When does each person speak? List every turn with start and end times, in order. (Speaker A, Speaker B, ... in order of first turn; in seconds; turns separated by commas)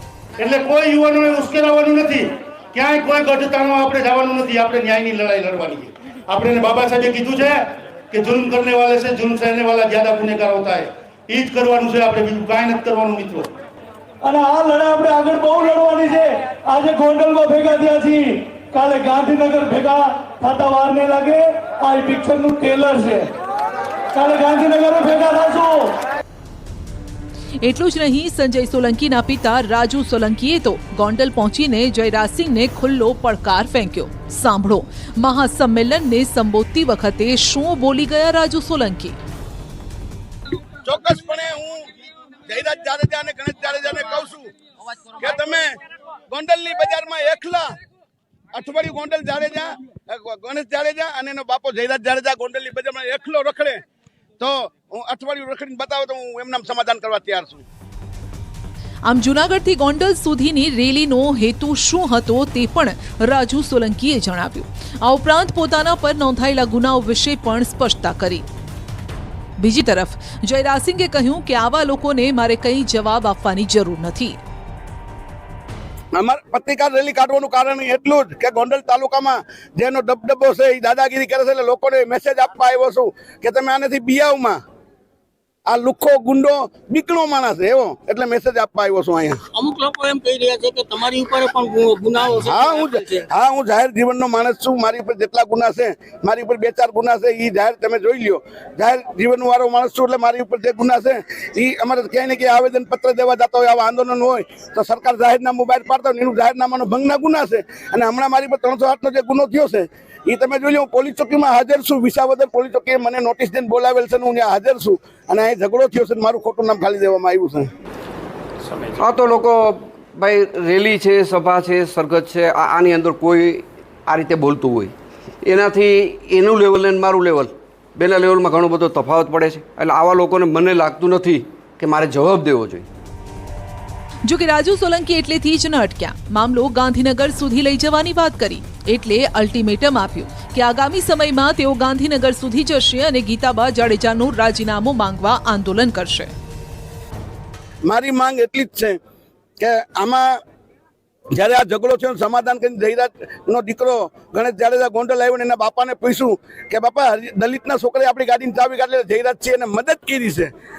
Speaker A: 0.4-13.5, Speaker B: 14.2-23.3, Speaker B: 24.1-25.9, Speaker C: 27.6-39.2, Speaker D: 40.9-41.9, Speaker D: 42.5-44.5, Speaker D: 45.2-45.8, Speaker D: 46.3-47.7, Speaker D: 48.5-53.8, Speaker D: 54.4-57.6, Speaker C: 59.1-68.5, Speaker C: 69.6-74.4, Speaker D: 76.2-84.6, Speaker D: 85.7-89.4, Speaker E: 89.5-93.3, Speaker D: 92.4-117.7, Speaker F: 119.0-132.9, Speaker C: 134.3-146.3, Speaker D: 147.9-149.0, Speaker D: 149.6-150.3, Speaker D: 151.4-160.5